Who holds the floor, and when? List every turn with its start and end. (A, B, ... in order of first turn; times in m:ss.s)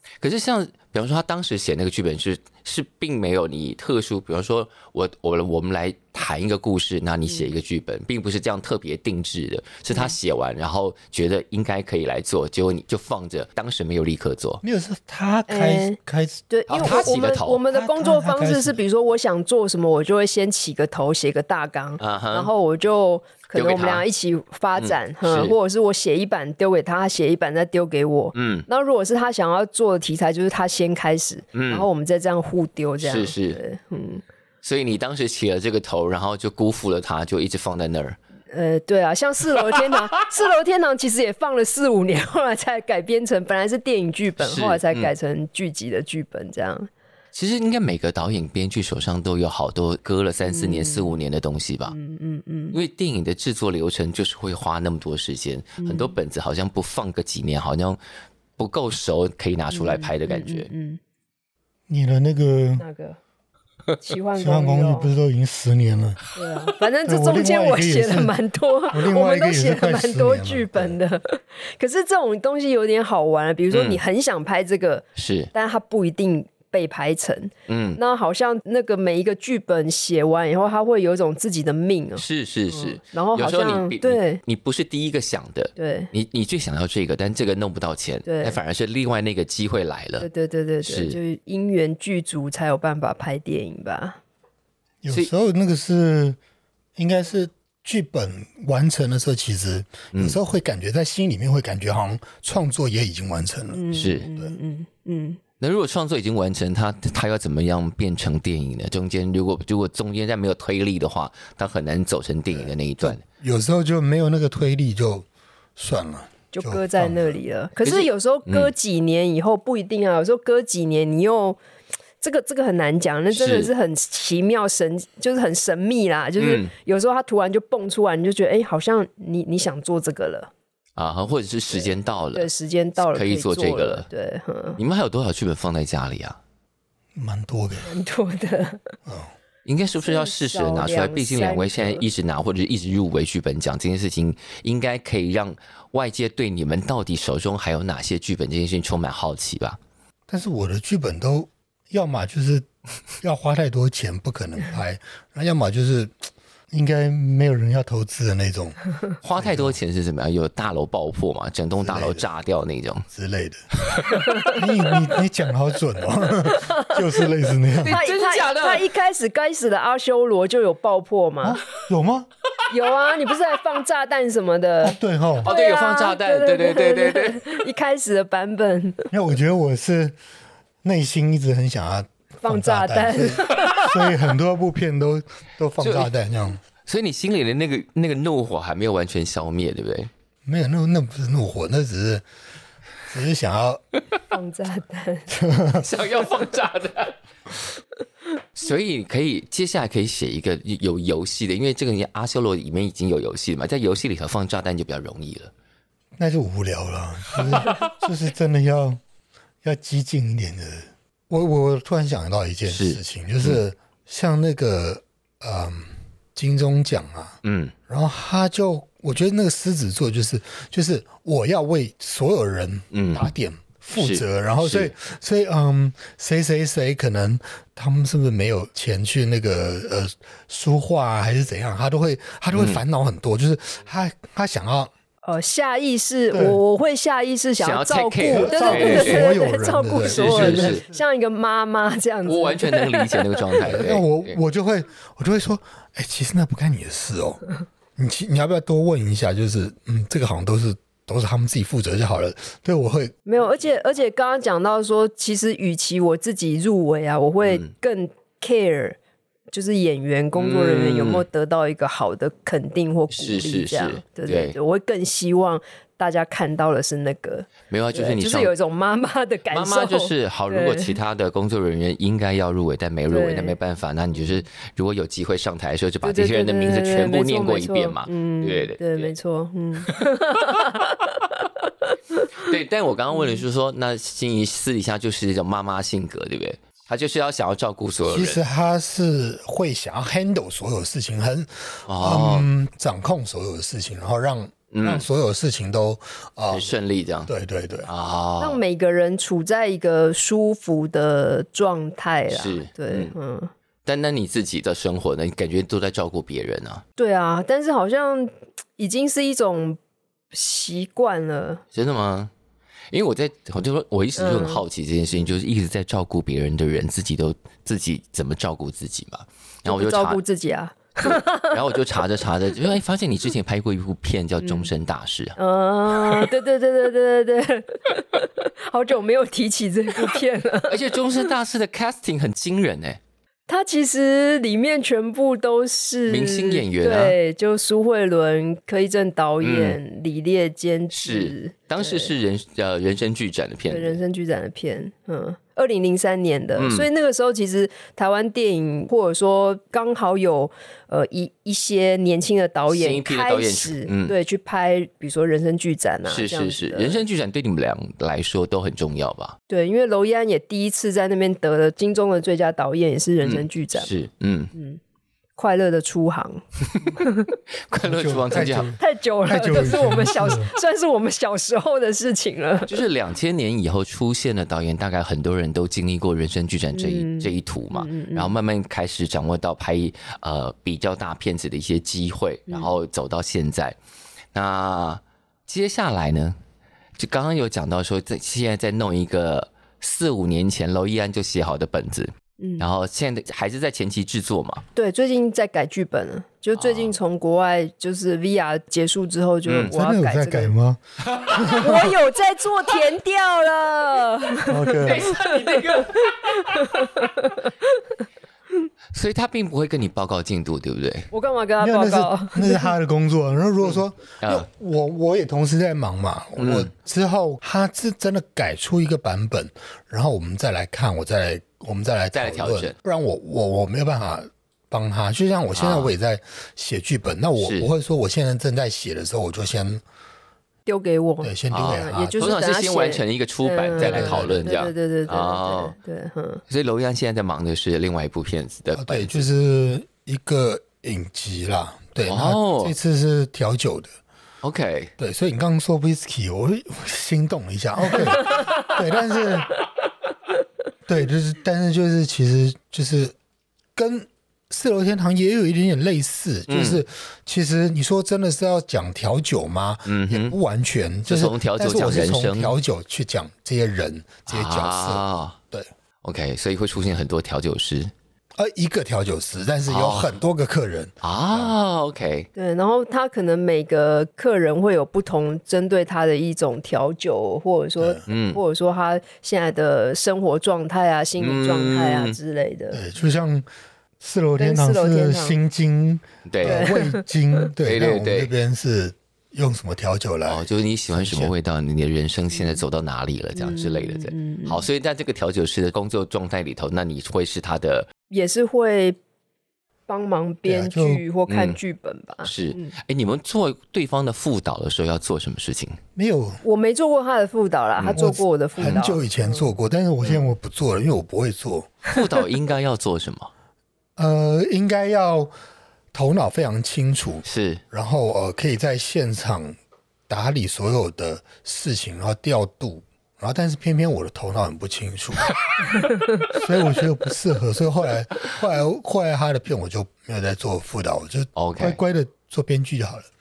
0:00.2-0:14.6 A
0:09.9-0:10.2 B
0:14.6-0:17.1 C
0:15.5-0:16.0 B
0:16.5-0:34.2 B
0:16.7-0:17.6 A
0:17.7-0:18.8 C
0:22.0-0:22.5 A
0:23.6-0:24.0 A
0:24.8-0:25.6 A
0:28.3-0:28.7 A
0:31.6-0:31.9 A
0:33.0-0:33.6 A
0:34.6-0:38.2 A
0:38.5-0:46.9 B
0:44.4-0:45.1 A
0:47.3-0:52.0 A
0:50.5-0:51.1 B
0:51.9-0:52.8 B
0:52.7-0:58.0 A
0:55.8-0:56.2 B
0:58.6-1:00.7 A
0:59.7-1:01.0 B
1:01.9-1:02.8 C
1:02.8-1:03.2 B
1:04.0-1:05.1 B
1:04.4-1:06.2 C
1:06.4-1:24.4 B
1:07.1-1:08.3 C
1:08.9-1:11.0 C
1:13.7-1:14.0 A
1:15.2-1:15.5 A
1:17.7-1:18.0 A
1:22.2-1:30.3 A
1:25.8-1:26.1 B
1:28.3-1:28.6 B
1:30.2-1:34.2 B
1:30.8-1:31.2 A
1:35.0-1:36.4 C
1:37.0-1:44.5 C
1:40.1-1:40.4 A
1:43.7-1:45.4 B
1:43.9-1:44.3 A
1:45.6-1:53.2 A
1:52.6-1:57.4 C
1:56.5-2:01.6 B
1:57.8-1:58.7 A
2:02.2-2:10.5 B
2:03.3-2:03.7 A
2:06.4-2:06.7 A
2:11.0-2:14.1 A
2:11.7-2:14.8 B
2:14.8-2:16.4 A
2:17.2-2:17.9 C
2:17.8-2:18.9 B
2:19.1-2:19.3 C
2:19.6-2:29.8 A
2:20.0-2:22.0 B
2:30.3-2:32.7 C
2:33.2-2:38.8 C
2:39.2-2:43.1 A
2:39.4-2:39.8 C
2:41.8-2:42.3 C
2:43.1-2:43.6 C
2:43.9-2:44.3 A
2:44.2-2:44.6 B
2:44.4-2:48.0 C
2:46.4-2:47.2 B
2:47.8-2:48.9 A
2:47.9-2:51.6 B
2:51.4-2:52.3 C
2:52.7-2:59.1 B
2:54.8-2:55.5 C
2:55.4-2:57.6 A
2:59.1-3:00.2 C
3:00.8-3:06.6 C
3:02.4-3:04.2 B
3:05.8-3:06.1 A
3:06.9-3:10.1 A
3:10.5-3:12.2 C
3:13.1-3:13.8 C
3:14.3-3:15.3 B
3:15.3-3:15.9 C
3:15.8-3:17.2 A
3:18.6-3:25.5 A
3:26.2-3:29.0 C
3:29.6-3:54.9 C
3:32.7-3:33.6 A
3:37.4-3:37.7 A
3:42.9-3:43.3 A
3:44.0-3:44.9 A
3:52.5-3:52.8 A
3:55.2-4:03.5 B
3:56.3-3:56.6 C
3:57.6-3:59.3 A
3:58.2-4:00.9 C
4:00.1-4:00.8 A
4:02.3-4:04.4 A
4:03.6-4:07.4 C
4:08.0-4:13.2 C
4:13.3-4:19.0 B
4:17.4-4:17.7 A
4:19.5-4:31.0 B
4:20.3-4:21.2 A
4:23.1-4:24.6 A
4:27.7-4:28.5 A
4:29.5-4:39.1 A
4:33.1-4:33.6 B
4:36.0-4:42.3 B
4:39.8-4:40.6 A
4:42.4-4:48.4 A
4:43.2-4:43.4 B
4:48.1-4:56.8 C
4:51.9-4:52.5 A
4:54.7-4:55.1 A
4:56.5-4:57.3 A
4:57.3-4:57.9 C
4:57.9-4:58.6 A
4:58.4-5:03.5 B
5:02.3-5:03.1 A
5:03.8-5:06.8 A
5:07.0-5:09.8 B
5:10.3-5:11.6 B
5:11.7-5:12.3 A
5:12.9-5:20.2 A
5:14.2-5:14.6 B
5:19.7-5:21.6 B
5:21.0-5:25.4 A
5:24.4-5:24.7 B
5:25.4-5:30.8 B
5:30.7-5:33.0 A
5:33.5-5:42.1 B
5:36.1-5:37.2 A
5:39.4-5:39.8 A
5:40.9-5:44.0 A
5:43.7-5:57.0 B
5:46.6-5:46.9 A
5:52.7-5:54.2 A
5:56.1-5:59.4 A
5:59.5-6:03.9 B
6:03.2-6:04.5 A
6:04.5-6:04.8 B
6:05.4-6:07.3 B
6:07.7-6:08.7 A
6:07.8-6:10.5 C
6:08.8-6:12.7 B
6:12.7-6:23.8 A
6:16.8-6:18.4 B
6:24.3-6:26.4 A
6:27.0-6:34.7 A
6:32.4-6:32.7 B
6:34.8-6:40.5 B
6:36.6-6:37.0 A
6:39.5-6:39.7 A
6:39.6-6:41.9 C
6:41.1-6:41.8 A
6:41.5-6:47.5 B
6:44.5-6:45.2 C
6:44.8-6:46.9 A
6:48.9-6:51.1 A
6:51.1-6:52.6 B
6:51.6-7:09.8 C
6:54.2-6:54.5 A
6:56.4-6:56.7 A
7:02.1-7:02.7 A
7:05.6-7:05.9 A
7:07.4-7:07.7 A
7:10.7-7:16.4 B
7:11.2-7:12.3 C
7:11.5-7:15.8 A
7:13.8-7:14.6 C
7:16.5-7:19.3 A
7:18.8-7:23.9 C
7:22.1-7:22.8 A
7:24.4-7:24.9 A
7:25.0-7:29.6 C
7:30.9-7:33.1 C
7:33.8-7:45.7 C
7:36.5-7:36.8 A
7:39.9-7:40.4 A
7:41.1-7:42.6 A
7:44.3-7:45.4 A
7:46.0-7:47.9 A
7:48.4-7:51.5 C
7:49.7-7:50.2 A
7:51.0-7:52.3 A
7:52.4-8:02.8 B
7:58.1-7:58.4 A
8:01.2-8:02.2 A
8:02.7-8:03.5 C
8:04.0-8:11.3 C
8:04.4-8:05.4 B
8:06.3-8:06.7 A
8:06.4-8:07.0 B
8:07.6-8:08.3 A
8:10.3-8:17.9 A
8:12.4-8:12.6 B
8:13.4-8:14.6 B
8:18.1-8:19.0 B
8:19.9-8:22.7 B
8:20.4-8:21.0 C
8:21.3-8:21.6 A
8:22.2-8:25.8 A
8:26.0-8:26.4 C
8:26.4-8:29.5 B
8:27.9-8:31.8 C
8:30.0-8:30.3 A
8:31.9-8:33.3 A
8:34.0-8:35.3 C
8:35.9-8:39.6 C
8:37.3-8:37.6 A
8:40.1-8:45.4 C
8:46.3-8:53.1 C
8:51.4-8:51.8 A